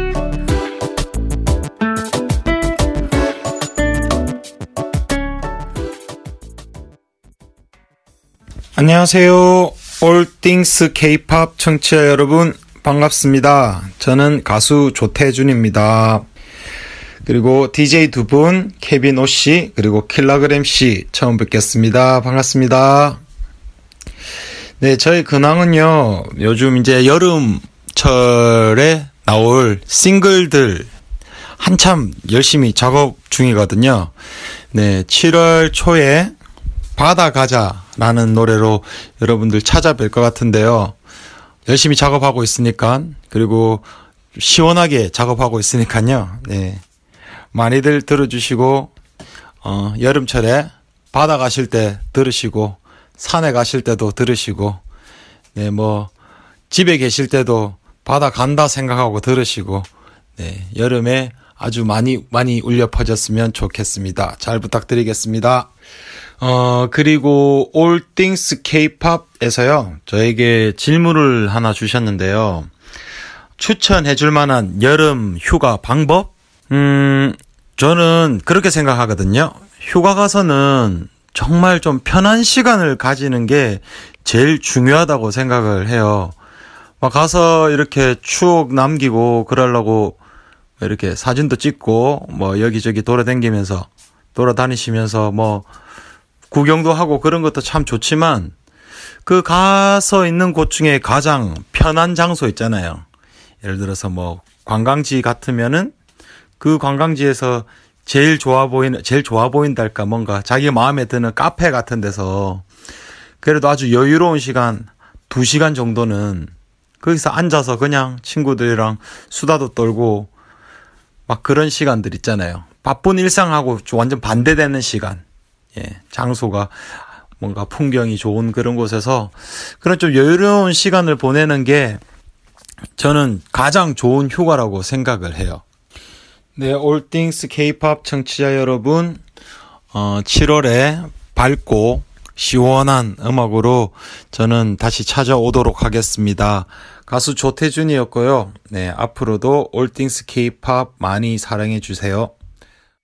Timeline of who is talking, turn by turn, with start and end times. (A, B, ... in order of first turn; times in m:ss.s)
0:08.8-0:16.2 A
0:17.2-0:23.2 A
0:24.8-0:30.9 A
0:31.6-0:34.1 A
0:34.7-0:36.3 A
0:37.0-0:41.0 A
0:41.7-0:46.8 A
0:47.5-0:48.9 A
0:49.6-0:54.8 A
0:55.6-0:56.1 A
0:56.7-1:05.7 A
1:06.4-1:12.7 A
1:13.6-1:26.4 A
1:27.0-1:30.2 A
1:30.8-1:35.7 A
1:36.5-1:38.5 A
1:39.2-1:43.0 A
1:43.6-1:45.9 A
1:46.6-1:52.7 A
1:53.4-2:00.3 A
2:01.3-2:05.2 A
2:05.8-2:12.0 A
2:13.0-2:15.6 A
2:16.6-2:19.2 A
2:19.9-2:32.3 A